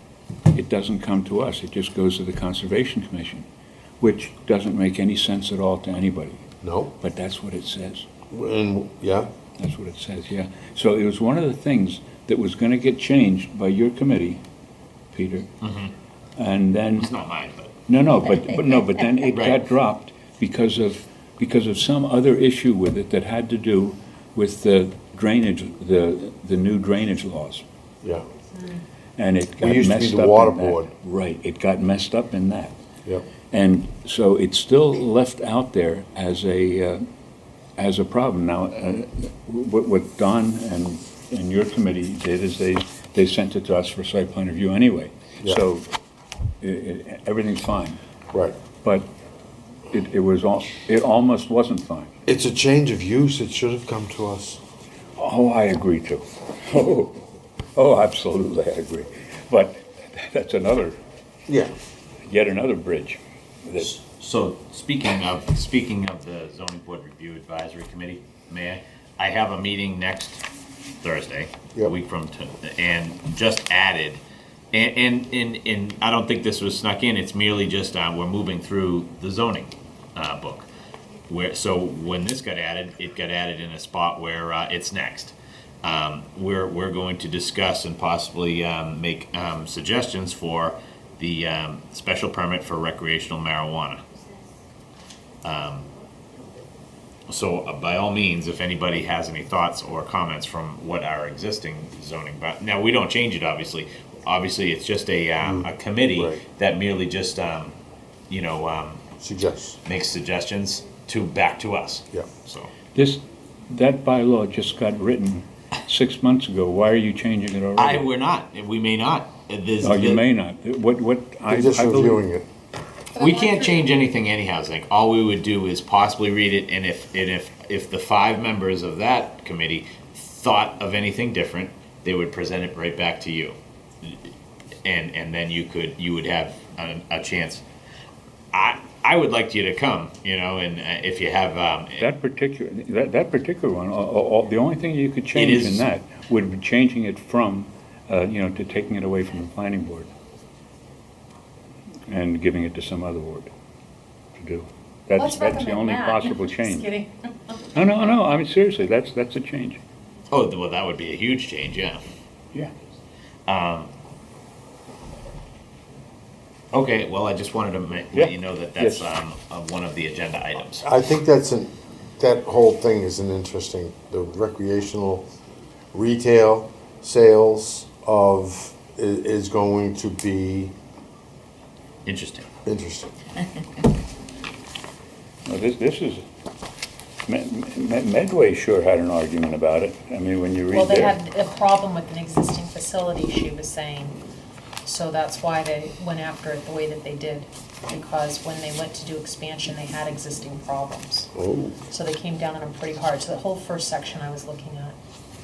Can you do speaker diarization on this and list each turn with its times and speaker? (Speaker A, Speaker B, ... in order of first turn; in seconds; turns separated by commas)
Speaker A: 0.5-3.5, Speaker A: 4.0-6.5, Speaker B: 6.6-6.9, Speaker A: 7.0-8.1, Speaker B: 8.3-9.3, Speaker A: 9.6-14.4, Speaker A: 15.1-15.5, Speaker C: 15.6-15.9, Speaker A: 16.4-17.1, Speaker C: 17.0-17.8, Speaker A: 17.9-27.6, Speaker C: 19.3-19.6, Speaker D: 28.6-28.8, Speaker A: 29.2-32.8, Speaker B: 29.6-30.9, Speaker A: 33.5-37.0, Speaker A: 37.8-45.9, Speaker A: 46.6-48.0, Speaker A: 48.8-49.1, Speaker A: 49.9-52.1, Speaker B: 52.2-54.6, Speaker A: 55.1-61.0, Speaker B: 61.5-61.7, Speaker A: 62.2-63.9, Speaker C: 63.8-70.4, Speaker C: 71.0-74.2, Speaker C: 74.7-80.7, Speaker C: 81.3-94.0, Speaker C: 95.4-95.9, Speaker C: 97.3-107.8, Speaker B: 105.4-106.4, Speaker C: 108.3-109.1, Speaker B: 109.2-109.8, Speaker C: 109.8-112.7, Speaker A: 112.9-118.1, Speaker C: 117.8-120.2, Speaker A: 119.8-122.2, Speaker B: 121.5-122.5, Speaker C: 123.2-134.2, Speaker D: 123.2-123.9, Speaker C: 134.8-137.6, Speaker C: 138.5-142.0, Speaker A: 142.0-150.1, Speaker C: 145.3-145.9, Speaker A: 152.1-153.5, Speaker A: 154.3-156.9, Speaker D: 155.2-157.6, Speaker A: 157.7-159.8, Speaker C: 160.3-162.0, Speaker C: 163.5-163.9, Speaker C: 166.7-170.8, Speaker A: 168.1-169.1, Speaker B: 170.8-175.2, Speaker B: 175.9-180.7, Speaker C: 182.1-182.5, Speaker B: 182.7-183.1, Speaker A: 185.4-186.2, Speaker A: 187.3-191.2, Speaker D: 190.7-194.2, Speaker D: 194.8-201.3, Speaker B: 201.3-201.8, Speaker D: 201.9-205.0